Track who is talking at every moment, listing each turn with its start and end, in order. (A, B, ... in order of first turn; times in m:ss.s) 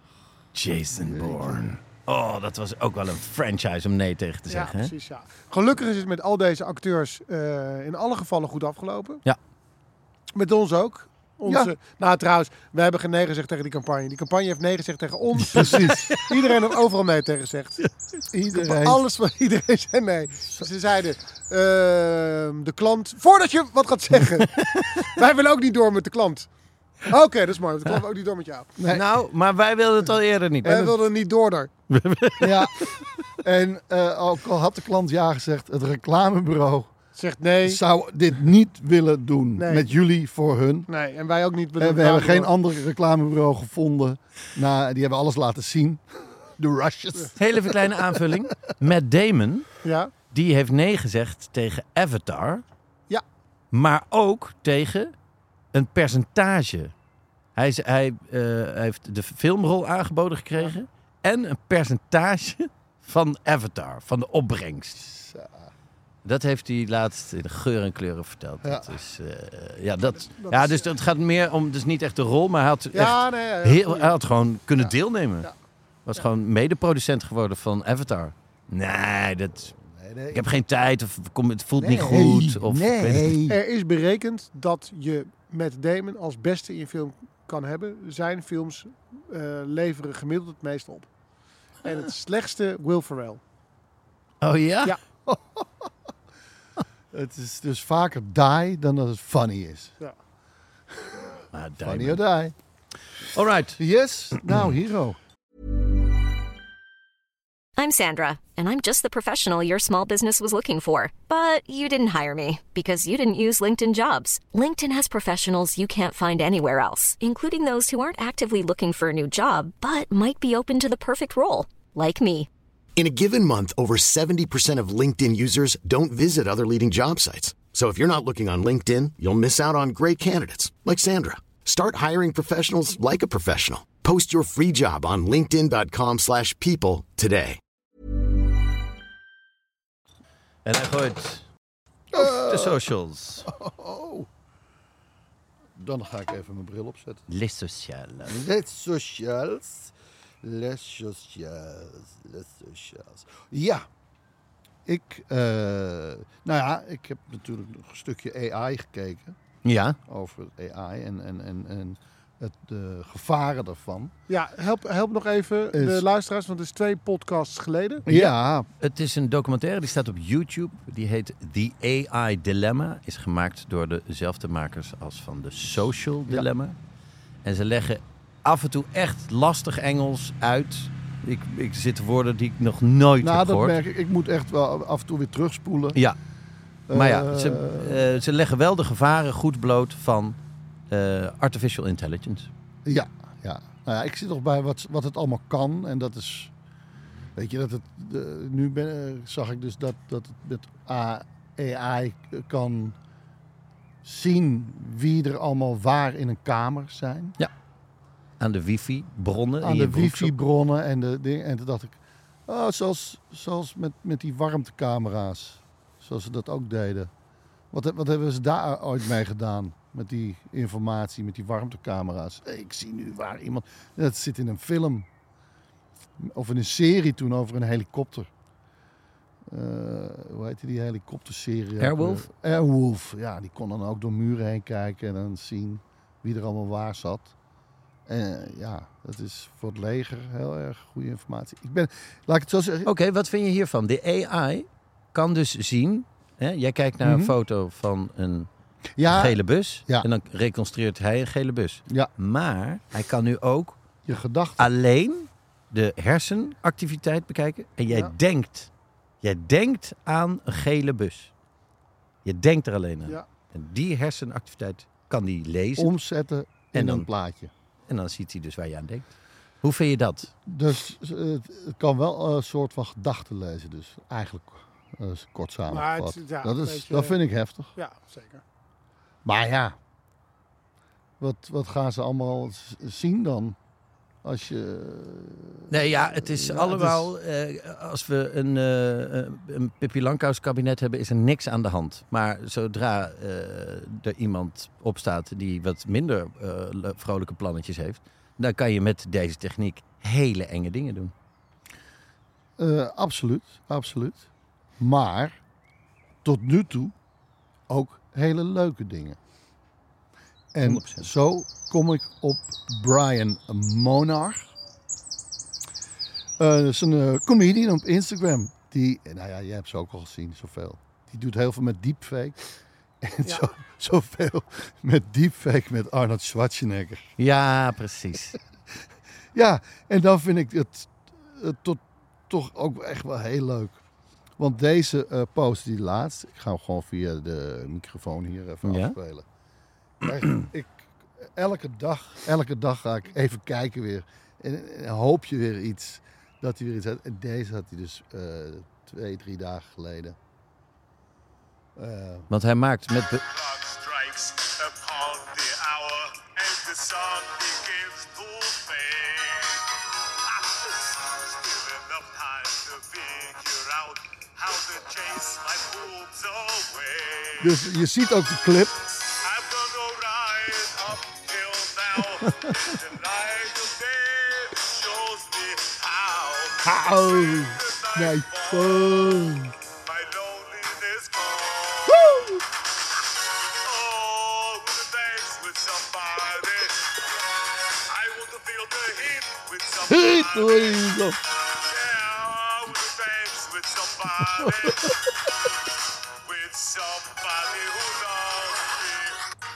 0:00.5-0:04.9 A
0:00.9-0:01.6 B
0:04.5-0:09.2 C
0:10.3-0:17.9 C
0:11.4-0:11.7 B
0:15.5-0:16.1 B
0:15.6-0:16.2 A
0:18.3-0:19.0 B
0:18.5-0:26.5 C
0:27.0-0:28.7 C
0:28.8-0:29.1 B
0:28.9-0:31.0 A
0:30.6-0:31.7 C
0:31.9-0:32.7 A
0:32.4-0:32.8 B
0:33.4-0:36.9 B
0:37.1-0:37.8 C
0:37.6-0:40.9 B
0:39.6-0:39.9 C
0:40.9-0:42.5 C
0:41.8-0:48.7 B
0:47.4-0:49.7 A
0:49.8-0:50.1 C
0:50.3-0:52.6 A
0:53.7-0:55.1 A
0:55.7-0:56.9 A
0:57.6-1:05.0 A
1:05.0-1:05.7 B
1:06.2-1:15.5 A
1:08.6-1:08.9 B
1:10.1-1:10.9 C
1:12.9-1:14.1 C
1:16.0-1:19.7 A
1:19.7-1:20.5 B
1:20.3-1:23.4 A
1:21.8-1:23.6 B
1:23.5-1:31.1 C
1:31.8-1:33.4 C
1:34.4-1:35.0 A
1:35.2-1:35.9 B
1:37.1-1:40.0 B
1:41.0-1:42.5 B
1:41.5-1:42.2 A
1:43.3-1:43.8 A
1:43.8-1:45.2 B
1:44.3-1:44.7 A
1:47.8-2:02.5 D
2:03.0-2:17.6 E
2:20.6-2:21.4 A
2:22.1-2:22.9 B
2:22.2-2:23.5 A
2:23.4-2:24.3 B
2:25.8-2:27.2 B
2:27.3-2:28.4 A
2:28.2-2:33.8 B
2:34.8-2:39.4 B
2:39.6-2:40.0 A
2:40.0-2:44.1 B
2:44.3-2:48.1 C
2:45.7-2:46.0 B
2:48.1-2:48.7 B
2:48.8-2:56.8 A
2:57.4-3:03.8 A
3:03.2-3:06.0 B
3:06.9-3:08.0 B
3:06.9-3:10.4 A
3:10.9-3:12.5 A
3:12.8-3:16.5 B
3:17.3-3:23.0 B
3:24.0-3:27.3 B
3:28.4-3:30.4 A
3:29.6-3:37.1 B
3:37.7-3:45.1 B
3:46.2-3:48.3 B
3:49.5-3:57.3 B
3:51.8-3:52.2 A
3:58.1-4:02.9 B
4:02.8-4:08.5 A
4:07.0-4:07.3 B
4:09.0-4:10.0 B
4:09.1-4:13.8 A
4:14.0-4:14.7 B
4:14.6-4:18.7 A
4:19.2-4:21.3 A
4:22.2-4:25.9 A
4:25.8-4:27.5 B
4:26.7-4:27.1 A
4:27.9-4:30.3 A
4:30.4-4:37.7 B
4:35.7-4:37.2 C
4:37.7-4:38.4 C
4:39.2-4:39.8 B
4:41.2-4:43.6 B
4:44.2-4:47.1 B
4:45.7-5:01.1 A
5:02.6-5:04.3 B
5:04.8-5:05.4 B
5:06.2-5:06.9 B
5:07.7-5:09.2 B
5:10.5-5:14.5 B
5:10.6-5:11.1 A
5:16.4-5:22.4 B
5:23.0-5:27.0 B
5:27.2-5:28.4 A
5:29.3-5:33.8 B
5:34.4-5:39.2 B
5:38.6-5:39.0 A
5:40.0-5:50.2 B
5:51.8-5:52.3 B
5:52.3-5:53.2 A
5:53.2-6:07.6 F
6:07.4-6:08.9 B
6:09.0-6:22.1 F
6:16.6-6:19.5 B
6:21.9-6:22.4 B
6:23.6-6:26.9 F
6:27.8-6:35.1 F
6:29.9-6:31.2 B
6:34.4-6:34.9 B
6:36.2-6:39.2 F